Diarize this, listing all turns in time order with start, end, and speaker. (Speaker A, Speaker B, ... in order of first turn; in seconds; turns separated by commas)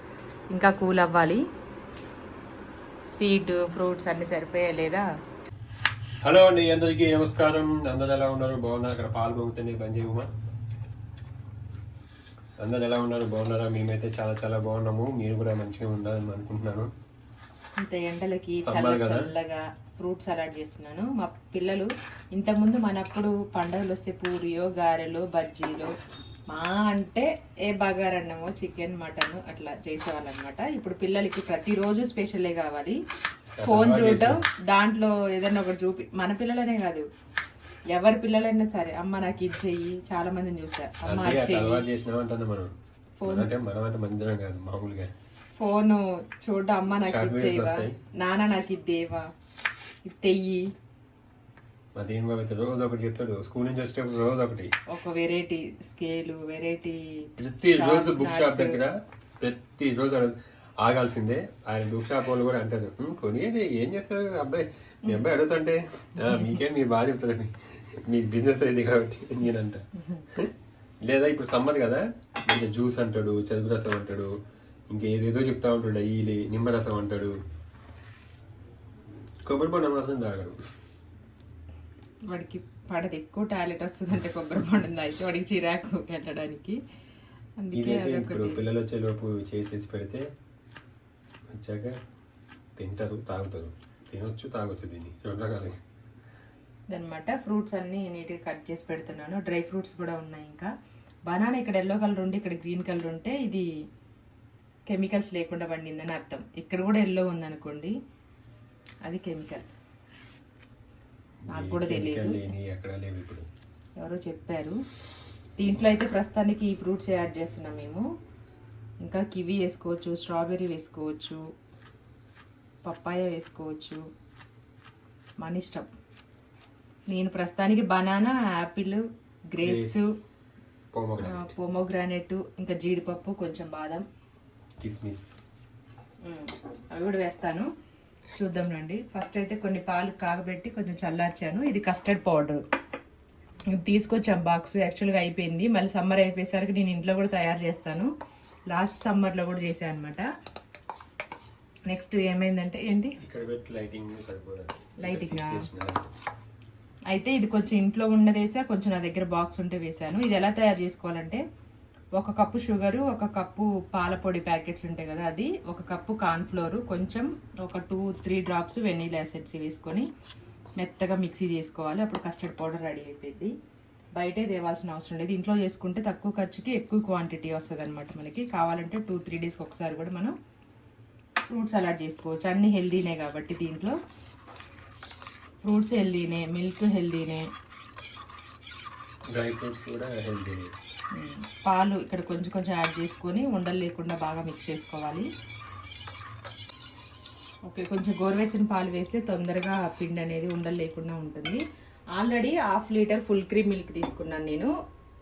Speaker A: 0.5-1.4, Speaker A: 3.1-5.0, Speaker B: 6.2-10.3, Speaker B: 12.6-16.9, Speaker A: 17.8-25.9, Speaker B: 18.6-19.3, Speaker A: 26.5-33.0, Speaker B: 33.6-34.4, Speaker A: 33.6-37.1, Speaker A: 37.9-41.8, Speaker B: 41.0-42.7, Speaker A: 43.2-43.5, Speaker B: 43.2-45.1, Speaker A: 45.6-49.3, Speaker B: 47.0-48.0, Speaker A: 50.0-50.6, Speaker B: 52.0-54.7, Speaker A: 54.9-58.8, Speaker B: 57.4-70.5, Speaker A: 70.0-70.2, Speaker B: 71.0-74.3, Speaker B: 74.9-77.3, Speaker B: 79.5-80.6, Speaker A: 82.3-86.8, Speaker A: 87.6-88.6, Speaker B: 87.7-90.2, Speaker B: 91.5-92.0, Speaker B: 92.8-95.8, Speaker A: 96.9-100.7, Speaker A: 101.3-103.7, Speaker A: 104.9-107.9, Speaker A: 109.0-109.7, Speaker B: 111.5-113.5, Speaker A: 111.5-112.5, Speaker A: 114.0-114.8, Speaker A: 115.6-118.0, Speaker A: 119.0-121.4, Speaker A: 122.8-124.0, Speaker A: 125.4-125.8, Speaker A: 127.1-130.1, Speaker B: 129.6-130.1, Speaker B: 130.9-131.5, Speaker A: 131.2-134.0, Speaker B: 134.8-135.2, Speaker A: 136.2-137.7, Speaker A: 138.3-142.6, Speaker A: 143.7-148.1, Speaker A: 148.7-150.2, Speaker A: 151.9-153.2, Speaker B: 153.2-156.1, Speaker A: 155.0-155.7, Speaker A: 157.1-161.4, Speaker A: 162.2-170.1, Speaker A: 170.8-173.5, Speaker A: 174.2-180.3, Speaker A: 181.5-183.9, Speaker A: 185.6-187.4, Speaker B: 189.3-190.7, Speaker A: 191.1-195.3, Speaker A: 197.7-201.6, Speaker A: 202.1-204.7